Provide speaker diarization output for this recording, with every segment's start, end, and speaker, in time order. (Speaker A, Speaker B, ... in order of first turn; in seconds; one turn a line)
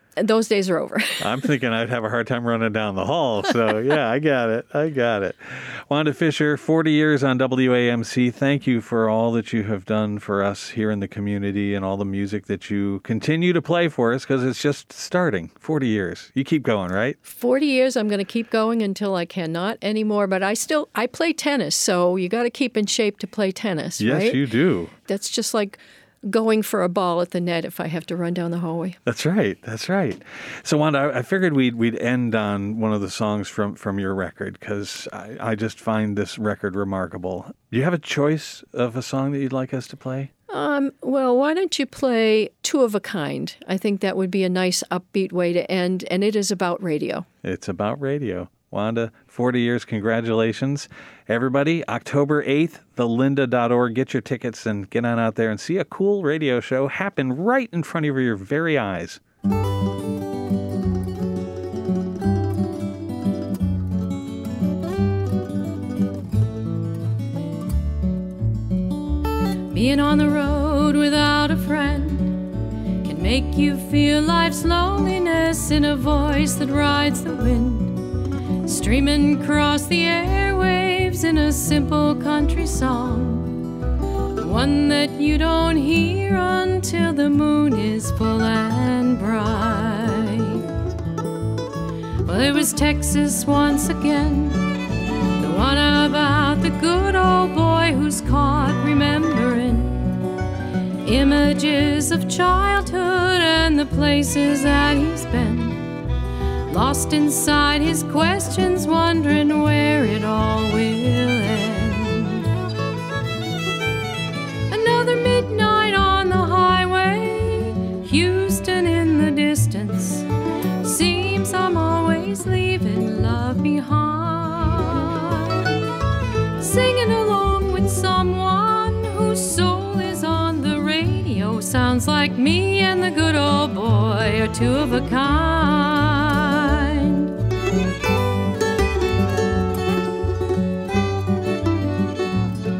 Speaker A: 0.2-1.4
Speaker B: 1.2-17.2
Speaker A: 17.2-24.4
Speaker B: 24.0-24.9
Speaker A: 25.1-29.0
Speaker B: 29.0-40.3
Speaker A: 40.5-47.2
Speaker B: 47.4-59.2
Speaker C: 69.7-72.4
Speaker C: 73.0-78.0
Speaker C: 78.6-83.6
Speaker C: 84.4-90.6
Speaker C: 92.2-94.6
Speaker C: 95.4-100.1
Speaker C: 101.0-105.8
Speaker C: 106.7-112.5
Speaker C: 114.7-120.2
Speaker C: 120.8-125.8
Speaker C: 126.6-137.3